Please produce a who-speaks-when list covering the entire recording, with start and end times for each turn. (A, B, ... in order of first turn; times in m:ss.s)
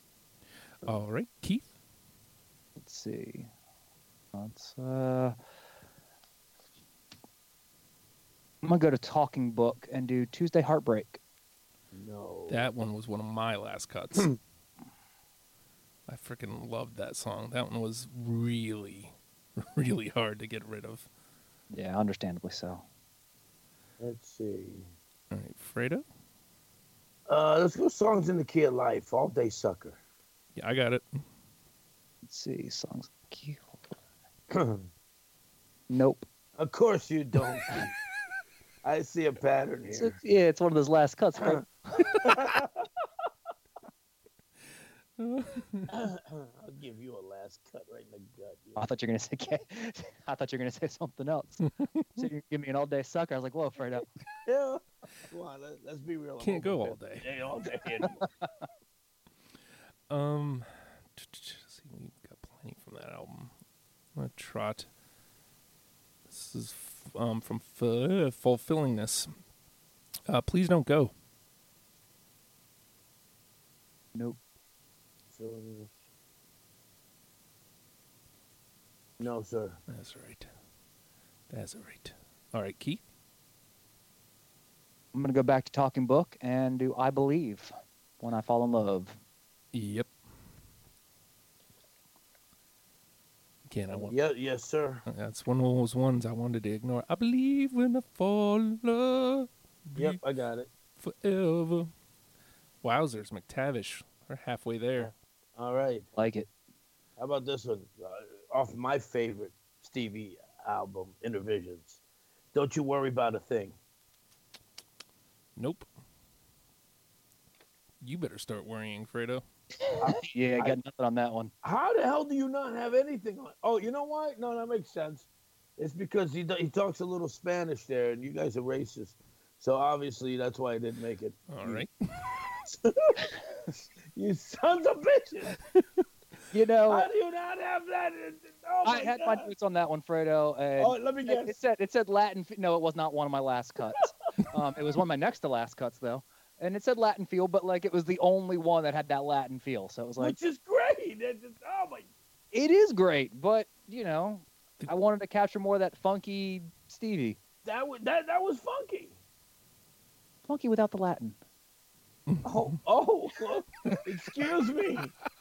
0:00.8-0:01.7 A
0:02.8-0:03.5 B
0:04.3-0:05.4 B
0:08.6-0:11.2 B
0:11.9-0:12.7 C
0:12.5-0:14.4 A
0:16.1-0:21.1 A
0:21.7-0:22.8 B
0:24.0-0:24.9 C
0:25.3-0:26.0 A
0:27.3-0:30.0 C
0:30.6-0:31.2 A
0:32.2-0:33.7 B
0:34.5-0:34.9 C
0:35.9-0:36.2 B
0:36.6-0:37.9 C
0:38.8-0:40.2 C
0:39.9-0:42.3 B
0:42.0-0:43.3 C
0:45.2-0:45.9 A
0:45.9-0:48.8 C
0:48.8-0:51.6 B
0:51.8-0:52.3 A
0:52.2-0:54.1 B
0:54.4-0:58.3 C
0:56.4-0:57.3 A
0:58.0-0:58.3 B
1:00.1-1:03.5 A
1:04.2-1:04.9 A
1:06.3-1:09.3 A
1:10.3-1:11.1 A
1:15.3-1:15.9 C
1:19.2-1:19.8 C
1:19.9-1:20.5 A
1:21.5-1:23.0 A
1:25.1-1:29.2 B
1:29.7-1:30.1 A
1:33.7-1:34.1 A
1:33.9-1:35.0 C
1:35.1-1:40.2 A
1:40.0-1:40.7 C
1:41.0-1:41.9 A
1:42.8-1:45.1 A
1:45.0-1:46.1 C
1:46.2-1:46.5 B
1:47.2-1:52.0 C
1:52.5-1:53.8 C
1:55.6-1:55.9 A
1:58.0-1:59.4 A
1:59.8-2:01.5 B
2:00.0-2:00.8 C
2:01.6-2:05.3 C
2:05.8-2:11.8 C
2:11.5-2:12.5 A
2:12.6-2:15.6 C
2:16.5-2:17.1 B
2:16.9-2:19.5 C
2:18.8-2:30.4 B
2:20.8-2:21.6 C
2:30.2-2:32.1 C
2:32.5-2:37.4 B
2:37.6-2:39.2 C
2:40.5-2:41.4 B
2:42.3-2:42.7 A
2:42.4-2:45.1 C